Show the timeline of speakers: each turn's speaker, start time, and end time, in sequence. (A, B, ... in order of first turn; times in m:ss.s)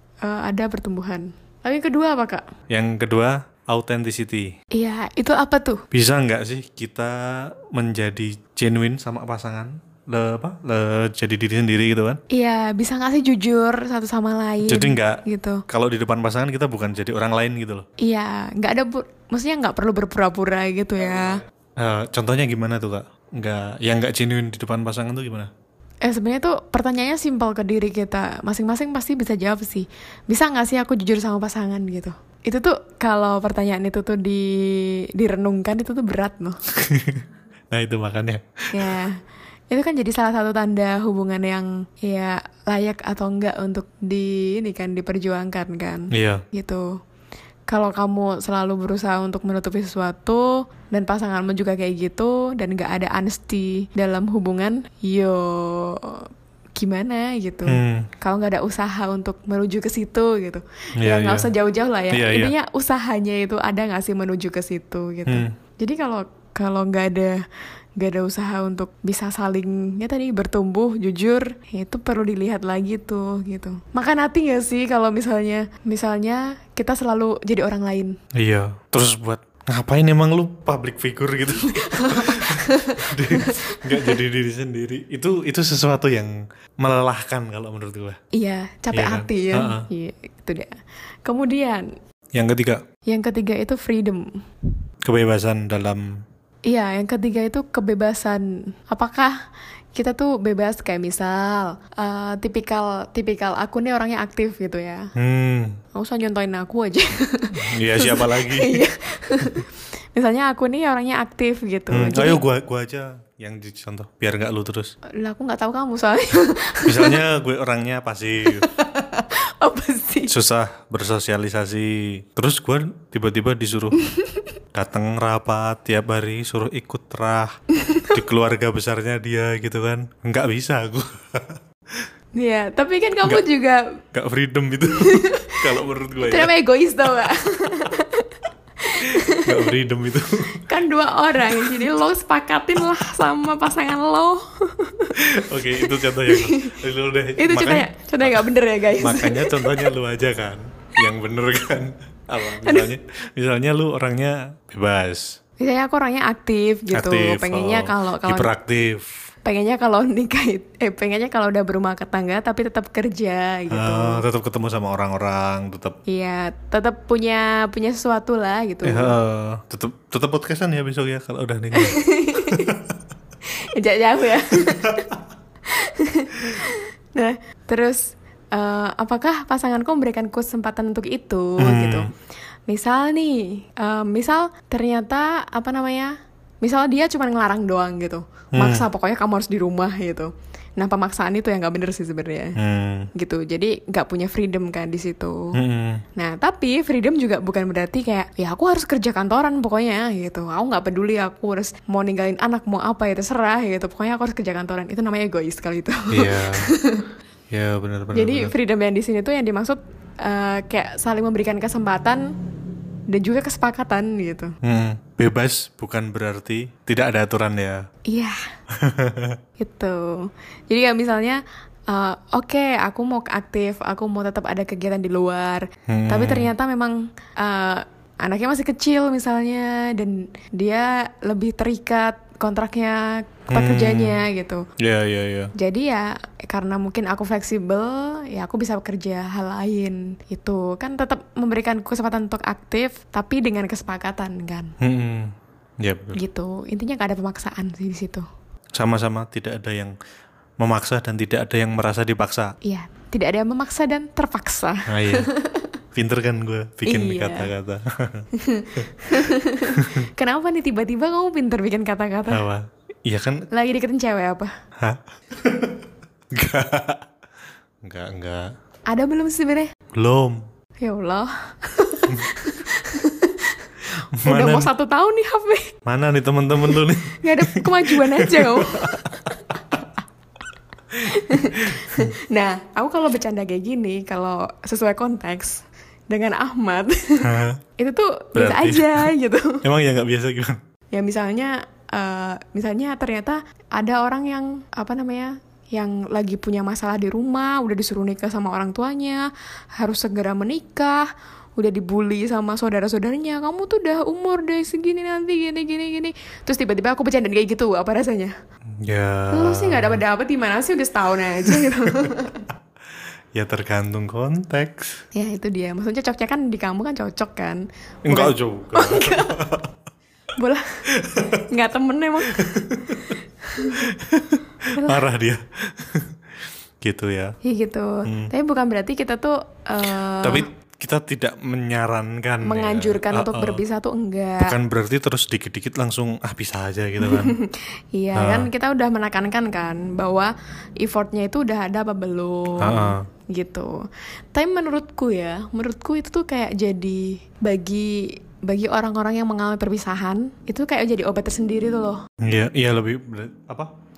0:00.2-0:02.4 A
0:02.7-0:04.5 B
0:04.7-0:05.8 A
0:05.9-0:12.2 B
0:12.3-0:15.6 A
0:14.6-0:17.8 B
0:18.0-0:21.4 A
0:21.8-0:25.5 B
0:26.0-0:36.6 A
0:36.8-0:38.9 B
0:38.7-0:39.2 A
0:39.7-0:47.0 A
0:46.1-0:46.4 B
0:47.7-0:56.2 A
0:56.8-1:07.4 A
0:57.7-0:58.1 B
1:01.0-1:01.5 B
1:02.1-1:02.5 B
1:05.3-1:05.5 B
1:08.0-1:18.2 A
1:18.4-1:28.2 B
1:21.6-1:24.2 A
1:28.3-1:31.9 A
1:28.9-1:29.9 B
1:32.4-1:32.8 B
1:33.1-1:34.3 A
1:35.0-1:36.1 B
1:36.7-1:39.3 A
1:40.0-1:45.1 A
1:45.2-1:45.8 B
1:46.0-1:52.4 A
1:47.6-1:48.9 B
1:51.9-1:54.9 B
1:55.2-1:57.2 A
1:56.8-1:58.7 B
1:58.5-2:00.3 A
2:00.3-2:04.0 B
2:04.0-2:04.5 A
2:04.7-2:07.5 B
2:07.8-2:08.2 A
2:08.1-2:12.1 B
2:12.4-2:14.0 A
2:14.1-2:16.5 B
2:14.9-2:19.7 A
2:19.0-2:20.6 B
2:20.6-2:26.8 A
2:25.2-2:35.4 B
2:27.4-2:29.9 A
2:32.6-2:32.9 A
2:35.6-2:38.5 A
2:36.9-2:39.1 B
2:39.4-2:44.2 A
2:43.7-2:46.0 B
2:46.1-2:49.1 A
2:48.8-2:52.8 B
2:51.7-2:52.8 A
2:53.5-2:55.1 A
2:55.7-3:02.1 A
3:01.6-3:02.1 B
3:02.7-3:12.6 A
3:08.5-3:08.9 B
3:12.6-3:13.1 B
3:13.1-3:15.6 A
3:15.5-3:16.0 B
3:16.2-3:27.1 A
3:26.1-3:26.7 B
3:27.5-3:28.5 B
3:28.1-3:32.3 A
3:33.1-3:34.6 A
3:34.6-3:37.8 B
3:38.1-3:38.4 A
3:38.7-3:39.4 B
3:39.6-3:54.7 A
3:45.9-3:46.5 B
3:53.5-3:54.2 B
3:54.8-3:55.5 B
3:55.6-4:04.7 A
4:04.8-4:06.2 B
4:06.1-4:08.2 A
4:08.8-4:10.0 B
4:10.6-4:12.6 B
4:12.6-4:15.7 A
4:14.9-4:15.3 B
4:16.0-4:18.3 B
4:16.8-4:17.5 A
4:18.3-4:22.4 A
4:19.7-4:20.0 B
4:22.3-4:23.5 B
4:23.5-4:24.5 A
4:24.8-4:25.8 B
4:26.3-4:27.0 B
4:27.8-4:28.5 B
4:28.9-4:29.7 A
4:29.9-4:30.4 B
4:30.8-4:35.7 A
4:34.2-4:34.7 B
4:35.9-4:39.8 B
4:37.2-4:39.6 A
4:40.9-4:42.1 B
4:41.0-4:49.6 A
4:47.2-4:47.6 B
4:48.4-4:49.1 B
4:49.6-4:50.6 B
4:50.9-5:08.3 A
5:08.8-5:10.0 B
5:09.3-5:12.5 A
5:11.5-5:11.9 B
5:13.4-5:15.0 B
5:15.1-5:19.4 A
5:18.0-5:19.7 B
5:20.4-5:20.8 A
5:20.9-5:21.5 B
5:21.5-5:23.9 A
5:22.3-5:23.1 B
5:23.7-5:26.2 B
5:26.8-5:27.4 B
5:27.4-5:30.5 A
5:28.0-5:28.3 B
5:30.2-5:33.6 B
5:32.4-5:34.6 A
5:34.4-5:37.4 B
5:37.0-5:52.0 A
5:38.2-5:38.5 B
5:42.6-5:43.0 B
5:52.2-5:53.7 B